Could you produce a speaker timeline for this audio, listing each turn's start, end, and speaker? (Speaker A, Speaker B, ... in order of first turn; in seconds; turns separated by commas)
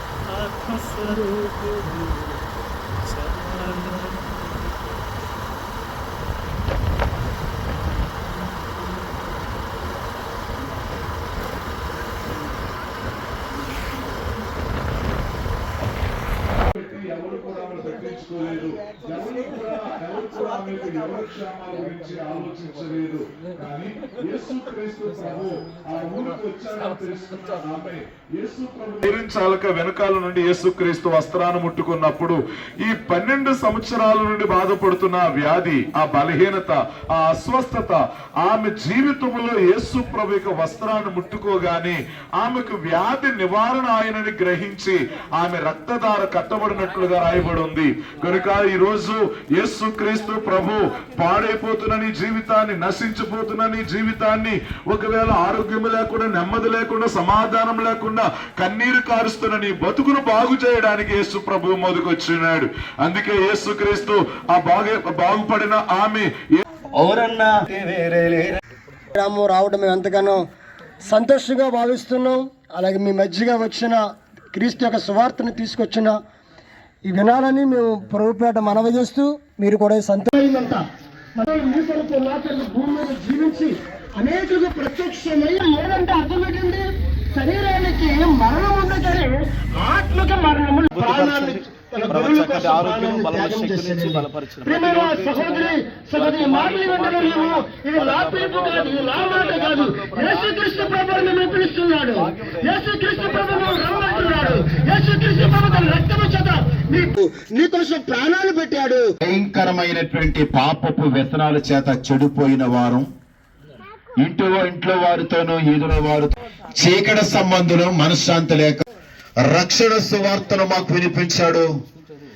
Speaker A: 0.3-2.3, Speaker A: 3.1-4.6, Speaker B: 16.7-66.6, Speaker C: 66.9-68.6, Speaker D: 69.2-70.4, Speaker D: 71.1-74.0, Speaker D: 74.5-76.1, Speaker D: 77.1-80.8, Speaker D: 81.4-109.0, Speaker C: 90.9-97.5, Speaker C: 98.0-101.4, Speaker C: 103.3-103.8, Speaker E: 109.2-113.1, Speaker E: 114.2-118.8, Speaker E: 119.4-121.7